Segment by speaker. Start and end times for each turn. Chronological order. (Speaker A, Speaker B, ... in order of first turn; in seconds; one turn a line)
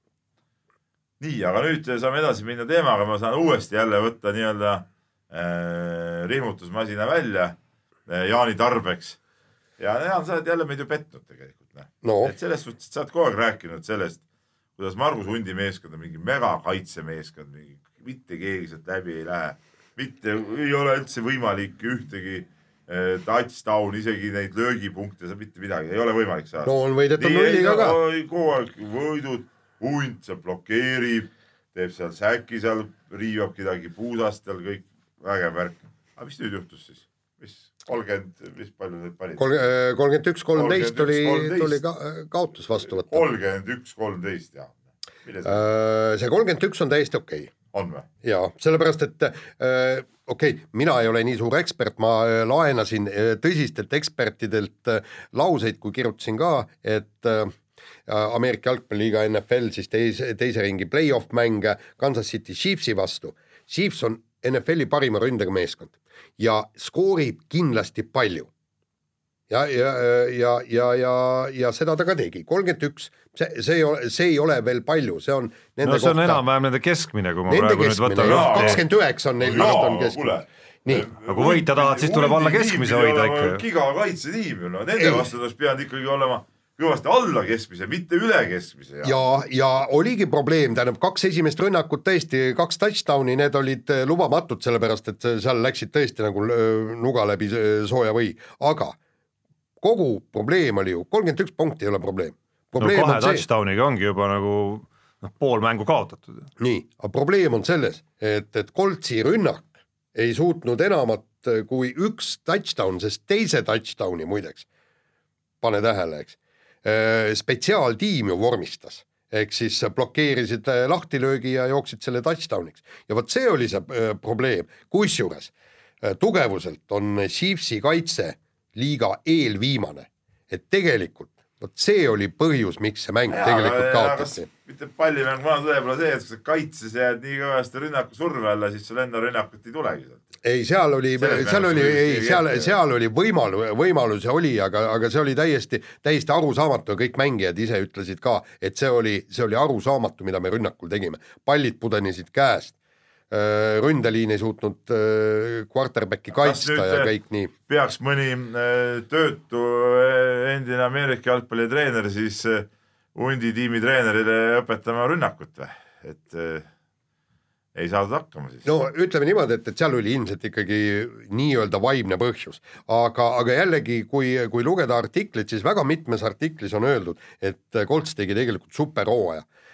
Speaker A: 1.2-7.5
Speaker A: 8.1-9.2
Speaker A: 9.8-14.2
Speaker B: 12.0-12.3
Speaker A: 14.8-39.5
Speaker B: 26.6-28.0
Speaker B: 39.4-43.2
Speaker A: 40.5-41.8
Speaker A: 42.9-44.7
Speaker A: 45.2-45.6
Speaker B: 45.4-47.5
Speaker A: 47.7-48.1
Speaker B: 48.2-57.5
Speaker B: 58.1-68.5
Speaker B: 69.5-76.4
Speaker C: 75.8-78.8
Speaker B: 77.5-81.1
Speaker A: 78.2-78.9
Speaker A: 79.4-89.2
Speaker C: 81.2-83.6
Speaker B: 85.0-85.3
Speaker B: 89.0-99.0
Speaker B: 99.8-103.4
Speaker C: 102.8-106.5
Speaker B: 106.6-114.7
Speaker B: 115.6-134.5
Speaker A: 133.3-140.2
Speaker B: 140.4-152.7
Speaker A: 141.2-142.8
Speaker B: 153.3-157.5
Speaker A: 156.3-157.1
Speaker A: 157.7-166.7
Speaker A: 167.7-168.7
Speaker B: 168.6-179.4